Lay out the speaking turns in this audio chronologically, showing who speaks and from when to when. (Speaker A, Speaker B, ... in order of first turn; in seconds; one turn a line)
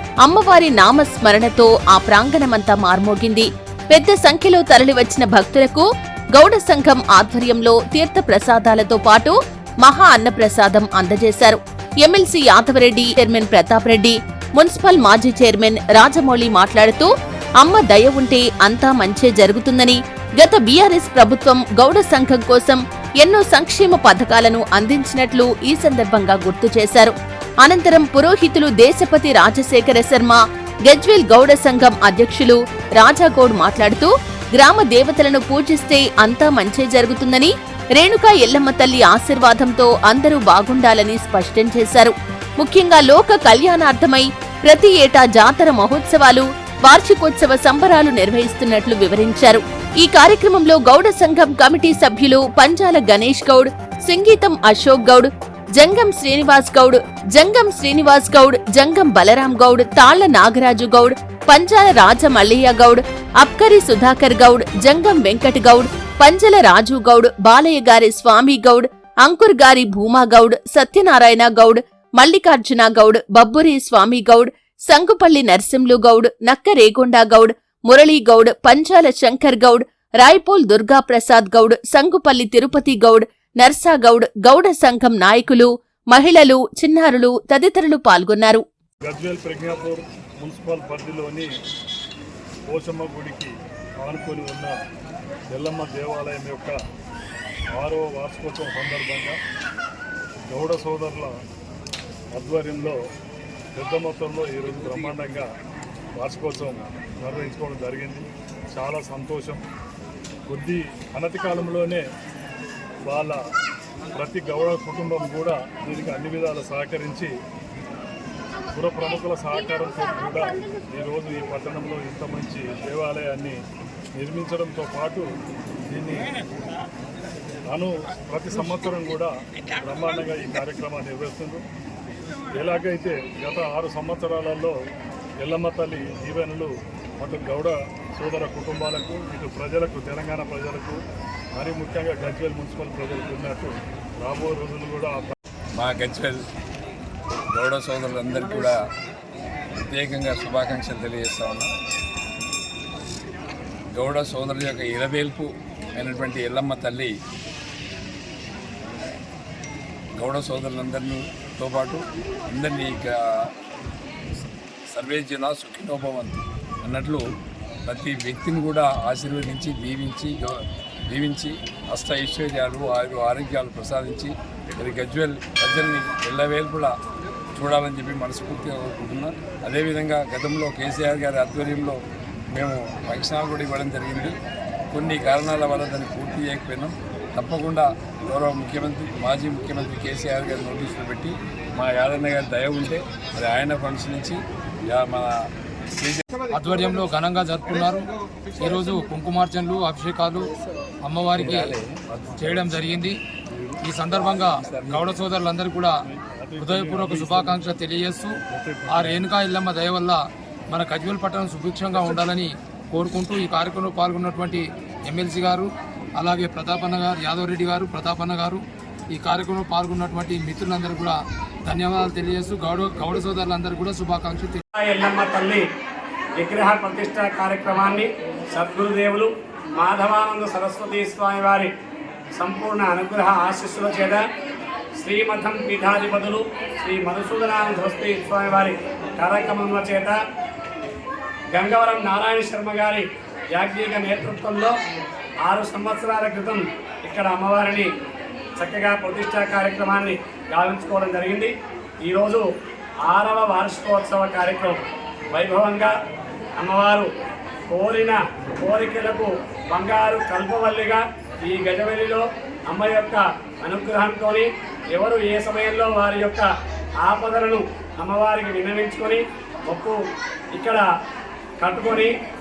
Speaker A: 0.2-88.6
Speaker B: 89.0-91.5
Speaker B: 92.7-93.5
Speaker B: 94.0-94.7
Speaker B: 95.5-96.8
Speaker B: 97.7-99.4
Speaker B: 100.5-101.3
Speaker B: 102.3-103.0
Speaker B: 103.8-105.5
Speaker B: 106.2-109.6
Speaker B: 110.5-112.0
Speaker B: 113.1-113.4
Speaker B: 114.1-117.3
Speaker B: 118.7-123.5
Speaker B: 124.2-125.3
Speaker B: 125.9-126.3
Speaker B: 127.7-131.6
Speaker B: 132.5-134.7
Speaker B: 135.4-141.0
Speaker B: 141.6-145.3
Speaker C: 145.8-146.4
Speaker C: 147.5-148.8
Speaker C: 149.8-151.7
Speaker C: 153.9-157.1
Speaker C: 160.2-163.2
Speaker C: 164.9-167.2
Speaker C: 167.9-170.6
Speaker C: 171.1-176.9
Speaker C: 177.6-182.0
Speaker C: 182.5-184.4
Speaker C: 184.9-195.3
Speaker C: 195.9-196.2
Speaker D: 196.5-200.5
Speaker D: 201.1-201.8
Speaker C: 201.4-202.9
Speaker D: 202.4-203.2
Speaker C: 203.6-205.2
Speaker D: 203.8-206.0
Speaker B: 206.0-207.6
Speaker D: 206.6-224.6
Speaker B: 208.5-209.3
Speaker E: 224.8-225.7
Speaker E: 226.4-231.7
Speaker E: 232.3-234.2
Speaker E: 234.9-240.2
Speaker E: 241.6-244.8
Speaker E: 245.4-247.9
Speaker E: 248.6-252.5
Speaker E: 253.0-255.9
Speaker E: 256.6-257.1
Speaker E: 257.7-266.5
Speaker E: 267.0-270.0
Speaker E: 270.5-270.9
Speaker E: 271.6-272.1